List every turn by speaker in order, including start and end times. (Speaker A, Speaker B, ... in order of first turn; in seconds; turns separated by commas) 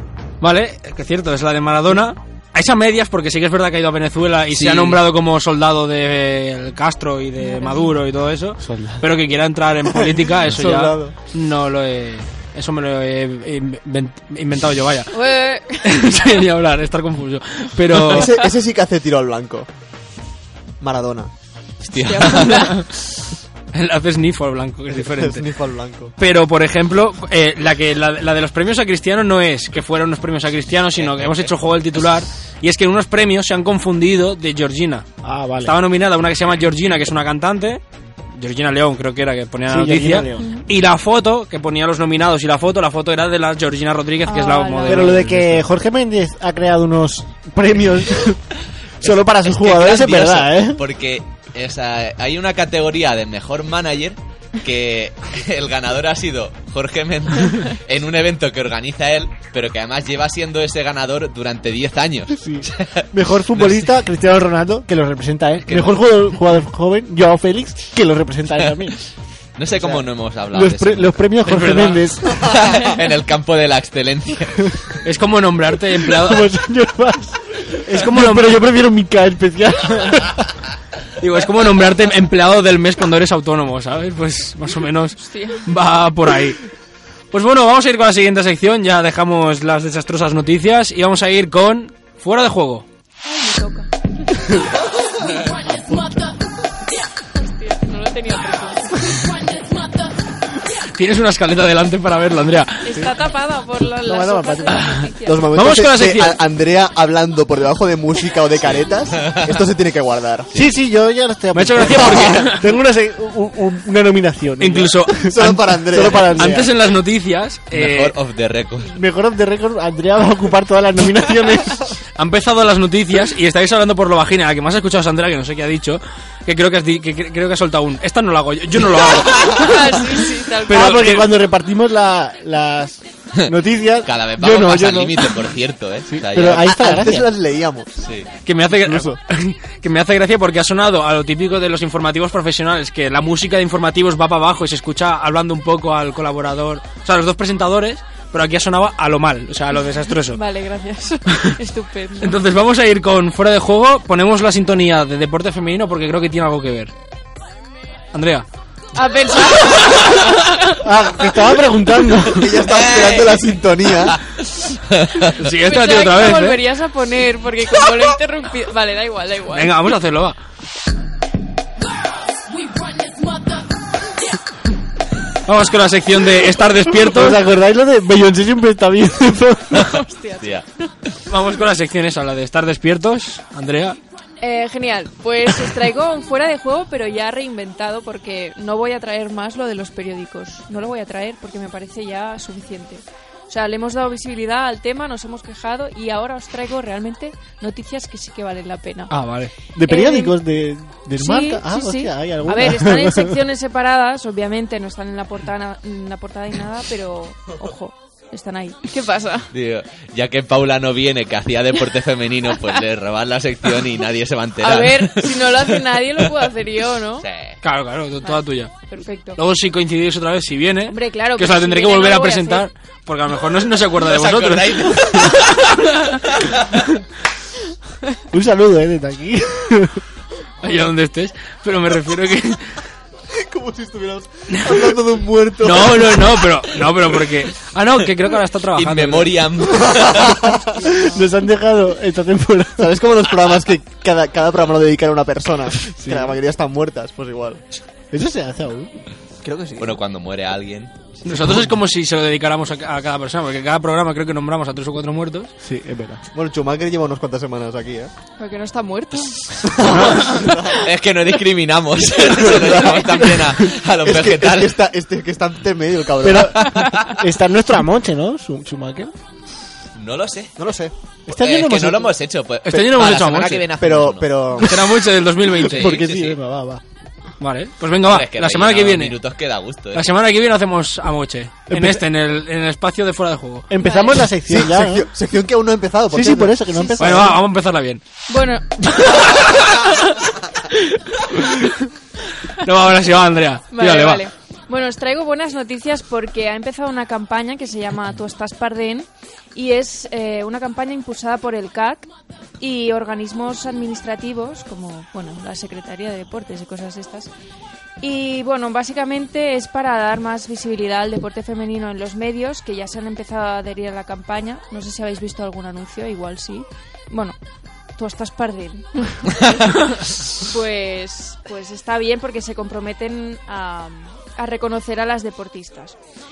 Speaker A: 0.4-15.2, Speaker B: 4.5-5.0, Speaker C: 7.4-8.0, Speaker D: 8.6-9.0, Speaker E: 9.8-11.1, Speaker C: 15.1-15.9, Speaker A: 15.8-18.3, Speaker E: 18.0-19.7, Speaker E: 20.8-21.3, Speaker B: 21.8-22.7, Speaker C: 21.9-22.8, Speaker A: 22.3-22.9, Speaker A: 23.7-25.4, Speaker E: 24.9-26.1, Speaker A: 26.2-35.1, Speaker B: 31.0-31.5, Speaker D: 35.2-35.8, Speaker A: 35.6-37.8, Speaker A: 38.4-45.6, Speaker D: 39.7-40.5, Speaker C: 40.4-40.7, Speaker C: 44.2-45.1, Speaker D: 44.9-48.4, Speaker D: 49.0-50.8, Speaker B: 49.0-63.9, Speaker D: 62.3-69.0, Speaker B: 65.7-66.1, Speaker B: 69.6-74.8, Speaker D: 70.5-72.6, Speaker A: 71.5-72.0, Speaker A: 75.0-76.5, Speaker D: 76.1-80.5, Speaker A: 77.9-78.6, Speaker A: 81.2-86.6, Speaker C: 85.2-85.6, Speaker A: 87.3-92.8, Speaker C: 93.2-94.6, Speaker C: 97.3-99.3, Speaker A: 101.0-102.9, Speaker C: 102.8-105.5, Speaker D: 104.0-104.8, Speaker A: 104.7-106.4, Speaker E: 105.2-110.5, Speaker B: 108.7-109.6, Speaker D: 110.5-116.7, Speaker A: 111.5-112.7, Speaker E: 112.1-112.3, Speaker A: 114.6-115.3, Speaker E: 115.3-116.5, Speaker A: 116.3-118.1, Speaker B: 117.7-118.9, Speaker D: 119.0-121.9, Speaker A: 122.2-130.1, Speaker C: 129.3-131.1, Speaker A: 130.7-131.3, Speaker D: 130.7-135.3, Speaker B: 133.4-136.7, Speaker D: 136.1-137.3, Speaker E: 136.4-138.0, Speaker B: 138.0-138.3, Speaker A: 138.4-150.4, Speaker E: 138.9-139.1, Speaker C: 149.7-152.4, Speaker A: 151.3-151.6, Speaker A: 152.2-156.9, Speaker A: 158.1-158.4, Speaker C: 158.9-160.8, Speaker D: 160.7-162.6, Speaker E: 162.3-164.2, Speaker B: 163.0-163.3, Speaker B: 164.9-165.4, Speaker A: 165.4-166.6, Speaker C: 165.6-169.8, Speaker A: 169.5-170.4, Speaker A: 175.4-177.4, Speaker D: 176.9-179.9, Speaker C: 179.8-180.6, Speaker B: 179.8-180.7, Speaker A: 181.3-184.0, Speaker C: 184.4-199.2, Speaker A: 199.1-199.5, Speaker D: 199.8-203.4, Speaker C: 199.8-200.3, Speaker C: 201.2-209.5, Speaker B: 209.5-215.8, Speaker C: 214.6-217.3, Speaker B: 217.2-217.6, Speaker A: 217.6-218.7, Speaker C: 218.2-219.4, Speaker A: 219.4-226.2, Speaker C: 220.9-222.7, Speaker B: 224.0-226.8, Speaker D: 228.3-230.0, Speaker A: 230.6-232.8, Speaker E: 233.3-236.5, Speaker A: 234.5-234.9, Speaker A: 235.6-239.4, Speaker B: 238.8-240.6, Speaker E: 239.7-240.8, Speaker D: 240.8-243.0, Speaker C: 240.8-241.2, Speaker E: 242.8-247.6, Speaker D: 246.0-246.4, Speaker D: 248.1-248.9, Speaker E: 249.4-250.0, Speaker B: 249.8-251.1, Speaker A: 251.2-255.5, Speaker D: 255.6-256.2, Speaker E: 256.3-258.1, Speaker C: 258.4-259.7, Speaker E: 259.6-260.9, Speaker D: 259.8-260.4, Speaker B: 260.7-264.8, Speaker E: 262.4-263.3, Speaker E: 264.0-266.6, Speaker D: 266.2-269.1, Speaker B: 269.9-270.7, Speaker E: 270.6-270.9, Speaker D: 271.3-272.1, Speaker B: 271.3-274.6, Speaker A: 272.7-273.6, Speaker E: 273.8-274.9, Speaker A: 274.6-276.0, Speaker B: 275.6-276.4, Speaker D: 275.6-276.8, Speaker A: 277.4-279.1, Speaker B: 278.1-280.1, Speaker A: 279.9-283.7, Speaker D: 281.7-282.1, Speaker D: 283.7-285.1, Speaker C: 283.8-284.2, Speaker E: 284.5-286.6, Speaker D: 286.1-287.4, Speaker C: 286.8-287.2, Speaker A: 287.0-288.0, Speaker C: 288.3-290.3, Speaker A: 290.7-291.7, Speaker A: 292.6-294.3, Speaker C: 293.7-302.1, Speaker C: 302.6-307.3, Speaker C: 308.0-317.4, Speaker C: 317.9-326.0